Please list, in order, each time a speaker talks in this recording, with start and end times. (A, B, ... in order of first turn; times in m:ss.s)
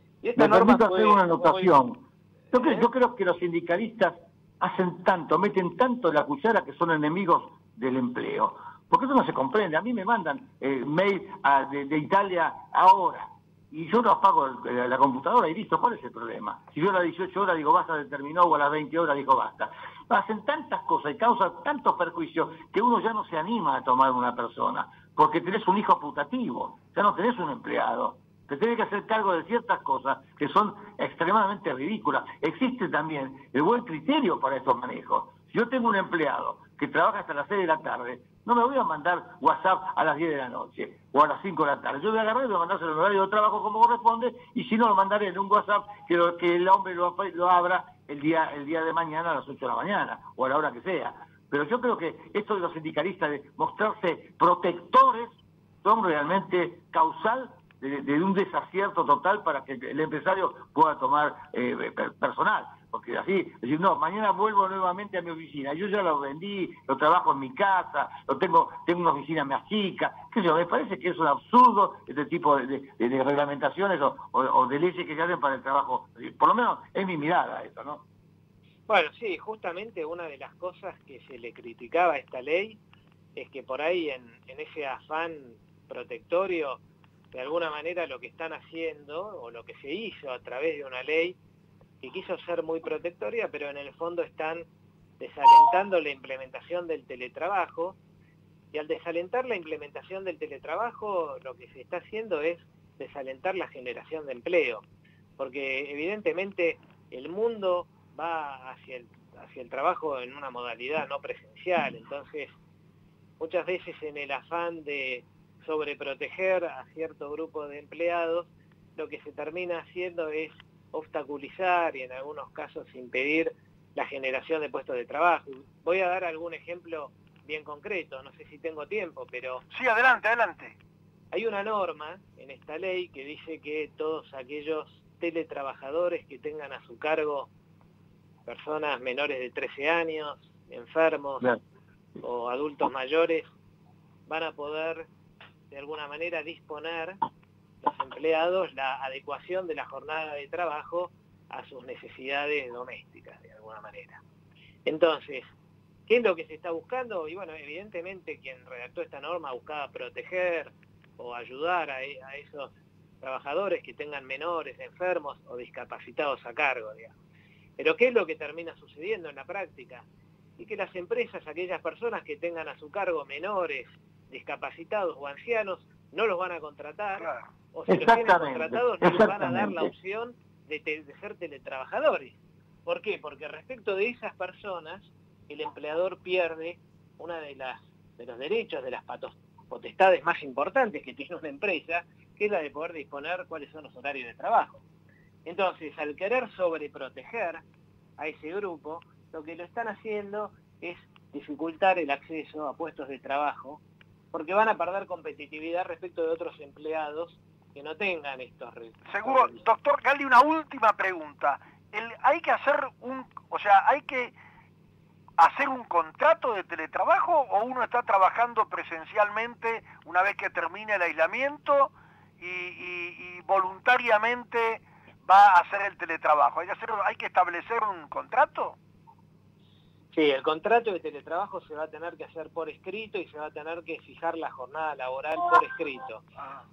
0:00.2-0:01.7 A
0:00.4-1:18.0 B
0:02.5-0:02.9 A
1:18.9-1:22.8 A
1:23.4-1:26.8 A
1:27.3-1:31.4 A
1:32.0-1:34.7 A
1:35.2-1:38.0 A
1:38.7-1:44.8 A
1:45.4-1:52.5 A
1:53.4-2:09.6 A
2:09.7-2:10.7 C
2:11.3-2:17.5 A
2:18.4-2:21.5 A
2:22.2-2:23.4 A
2:24.3-2:25.1 A
2:25.7-2:27.2 A
2:27.8-2:34.2 A
2:34.8-2:35.4 A
2:36.1-2:47.1 A
2:47.8-2:50.0 A
2:50.6-3:14.8 A
2:57.2-2:57.5 C
2:57.9-2:59.9 B
3:15.4-3:17.6 A
3:18.2-3:23.8 A
3:24.3-3:29.6 A
3:29.1-3:34.3 C
3:35.4-3:48.8 C
3:50.1-3:56.2 A